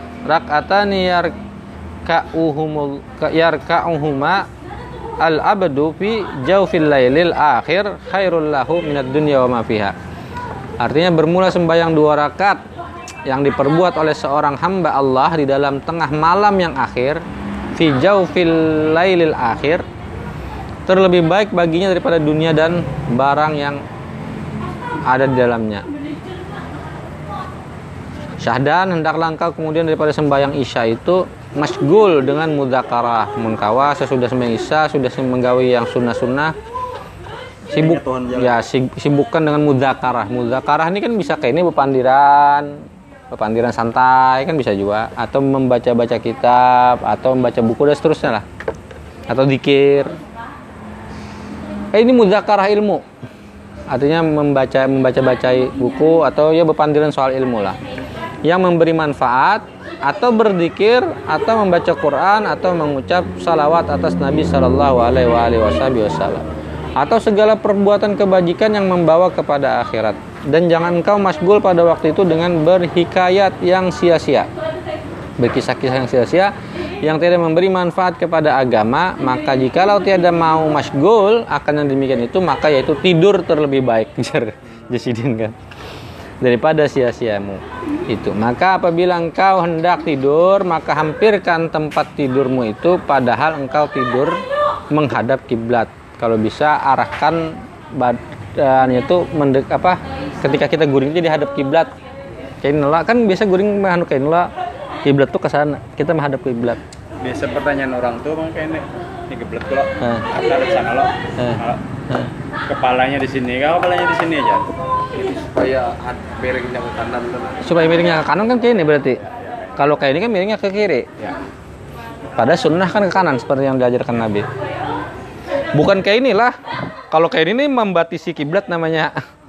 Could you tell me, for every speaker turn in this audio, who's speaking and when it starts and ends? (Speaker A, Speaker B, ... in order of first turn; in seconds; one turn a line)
Speaker A: 0.3-1.3
Speaker A: 2.0-4.5
Speaker A: 5.2-9.9
Speaker A: 10.8-12.6
Speaker A: 13.3-17.2
Speaker A: 17.8-19.8
Speaker A: 20.9-23.8
Speaker A: 25.1-25.9
Speaker A: 28.4-36.5
Speaker A: 37.7-42.8
Speaker B: 37.8-38.6
Speaker A: 43.3-48.5
Speaker A: 49.3-50.1
Speaker A: 51.9-53.0
Speaker A: 53.9-57.8
Speaker A: 58.4-66.5
Speaker A: 67.0-74.5
Speaker A: 75.4-85.6
Speaker A: 86.4-101.9
Speaker A: 102.6-104.5
Speaker A: 105.0-106.8
Speaker B: 107.2-111.8
Speaker A: 110.0-110.3
Speaker B: 112.7-114.7
Speaker C: 115.2-117.6
Speaker A: 117.6-121.1
Speaker B: 119.3-119.7
Speaker A: 122.4-124.5
Speaker A: 125.7-126.6
Speaker A: 127.1-129.1